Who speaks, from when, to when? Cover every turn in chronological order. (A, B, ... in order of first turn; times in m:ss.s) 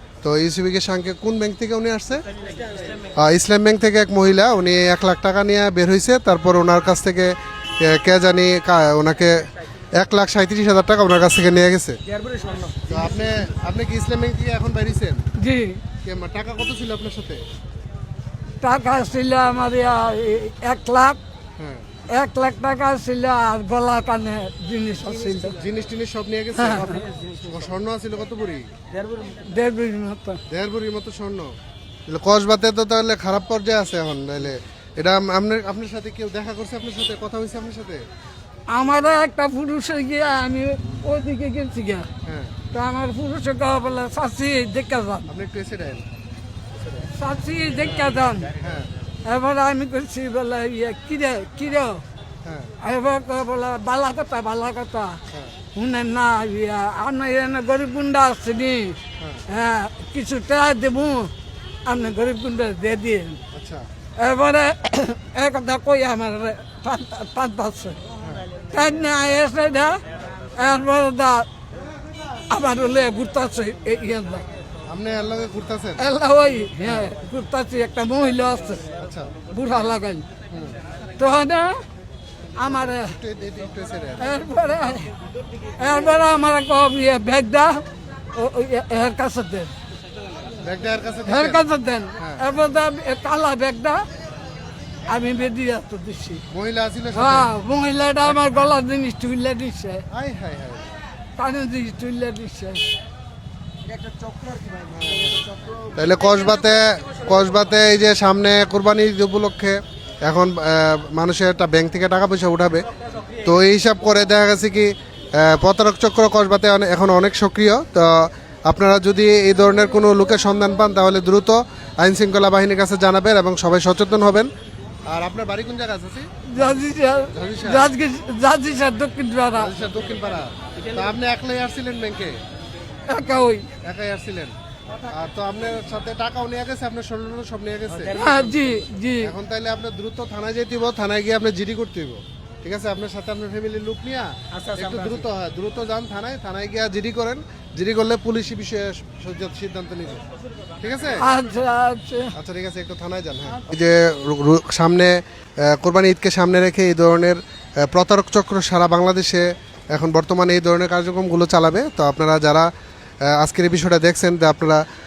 0:00.2-0:02.2 A
0:03.2-0:12.0 A
0:12.9-0:15.2 A
0:15.4-0:15.8 B
0:16.0-0:17.4 A
0:18.6-0:21.2 B
0:21.6-0:21.8 A
0:22.1-0:25.6 B
0:25.5-0:28.7 A
0:26.6-0:27.0 B
0:29.4-0:30.4 B
0:30.5-0:31.5 A
0:32.1-0:38.0 A
0:38.7-0:42.1 B
0:42.2-0:42.6 A
0:42.7-0:45.3 B
0:45.3-0:46.0 A
0:47.0-0:48.6 B
0:48.6-0:48.9 A
0:49.2-0:52.0 B
0:52.4-0:52.7 A
0:52.8-0:55.2 B
0:55.7-1:01.3 B
0:59.2-0:59.4 A
1:01.8-1:03.4 B
1:03.5-1:03.8 A
1:04.2-1:08.0 B
1:08.7-1:10.0 B
1:10.6-1:11.5 B
1:12.5-1:14.4 B
1:14.9-1:16.0 A
1:16.0-1:18.8 B
1:19.0-1:19.3 A
1:19.5-1:20.2 B
1:20.5-1:20.8 A
1:21.2-1:21.8 B
1:22.6-1:23.2 B
1:22.7-1:24.4 A
1:24.2-1:25.1 B
1:25.8-1:29.7 B
1:30.6-1:31.6 A
1:31.2-1:34.0 B
1:32.2-1:32.4 A
1:35.1-1:36.4 B
1:36.5-1:37.5 A
1:37.1-1:40.0 B
1:40.1-1:40.9 A
1:41.4-1:42.9 B
1:44.9-1:52.8 A
1:53.4-2:04.5 A
2:05.1-2:07.9 A
2:06.5-2:09.7 B
2:09.6-2:12.4 A
2:13.1-2:13.6 B
2:13.8-2:18.2 A
2:18.1-2:19.3 B
2:19.2-2:30.2 A
2:30.8-2:31.3 A
2:31.2-2:32.3 B
2:32.3-2:42.7 A
2:43.2-2:44.8 A